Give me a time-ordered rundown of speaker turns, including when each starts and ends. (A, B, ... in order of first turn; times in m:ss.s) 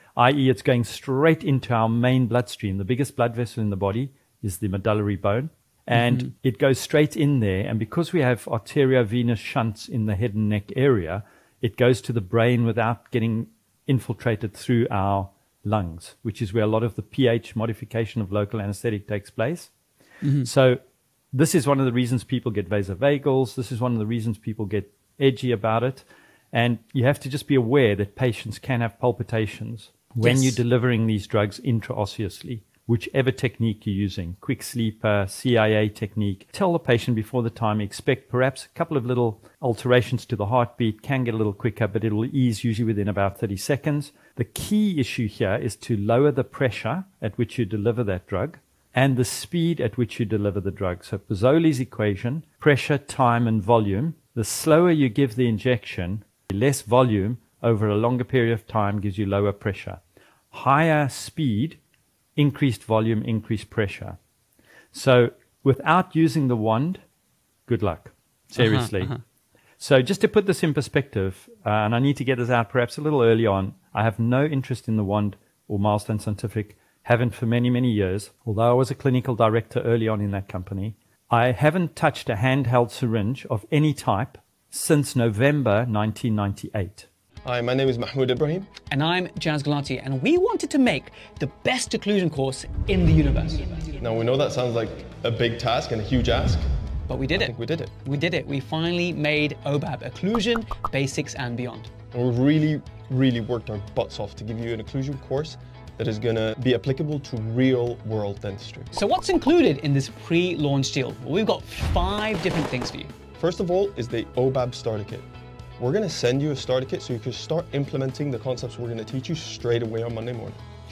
0:00.2-0:19.7 A
0:05.9-0:06.3 B
0:20.2-0:20.5 B
0:20.4-0:20.8 A
0:21.3-1:00.0 A
0:30.2-0:30.6 B
1:00.5-1:01.8 A
1:02.4-1:04.2 A
1:04.9-1:07.0 A
1:07.7-1:09.2 A
1:08.6-1:09.2 B
1:09.8-1:27.1 A
1:27.4-1:28.7 C
1:28.9-1:34.0 B
1:34.0-1:36.7 C
1:37.1-1:37.5 B
1:37.4-1:37.9 C
1:38.0-1:41.9 B
1:42.1-1:48.9 C
1:48.9-1:53.1 B
1:53.4-1:55.3 C
1:55.8-2:00.6 C